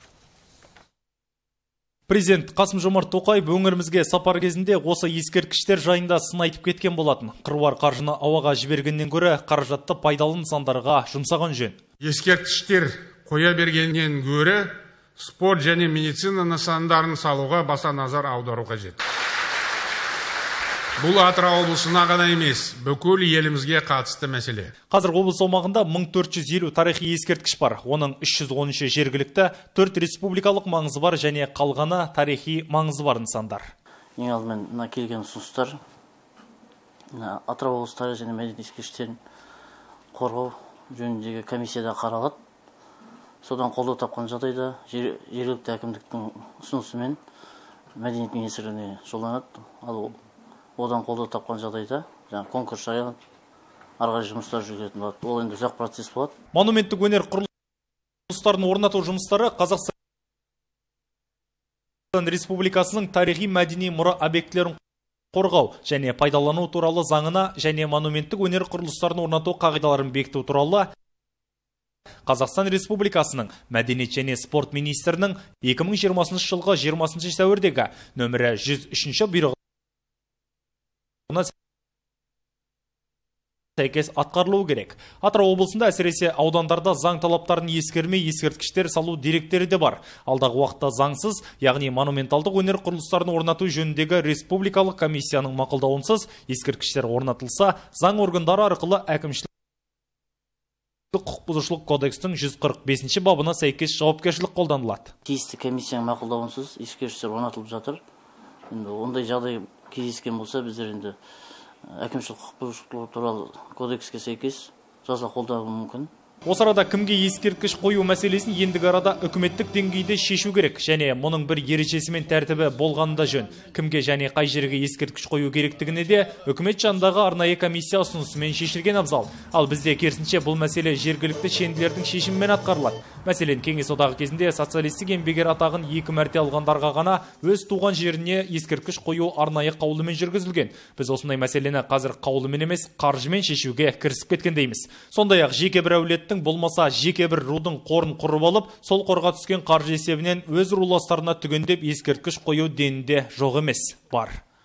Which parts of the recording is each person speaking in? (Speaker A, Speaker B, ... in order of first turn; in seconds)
Speaker A: 2.1-11.8, 24.9-33.7, 56.5-57.5, 58.3-59.9, 62.1-64.8, 65.3-70.9, 72.2-79.5, 83.8-99.5, 101.1-105.1, 116.5-154.4
Speaker B: 12.0-19.0, 21.0-24.7
Speaker C: 34.2-35.8, 37.1-39.2, 40.1-42.4, 43.4-47.2, 47.9-50.2, 50.8-53.2, 54.0-56.3, 105.2-108.0, 108.7-111.2, 112.0-116.1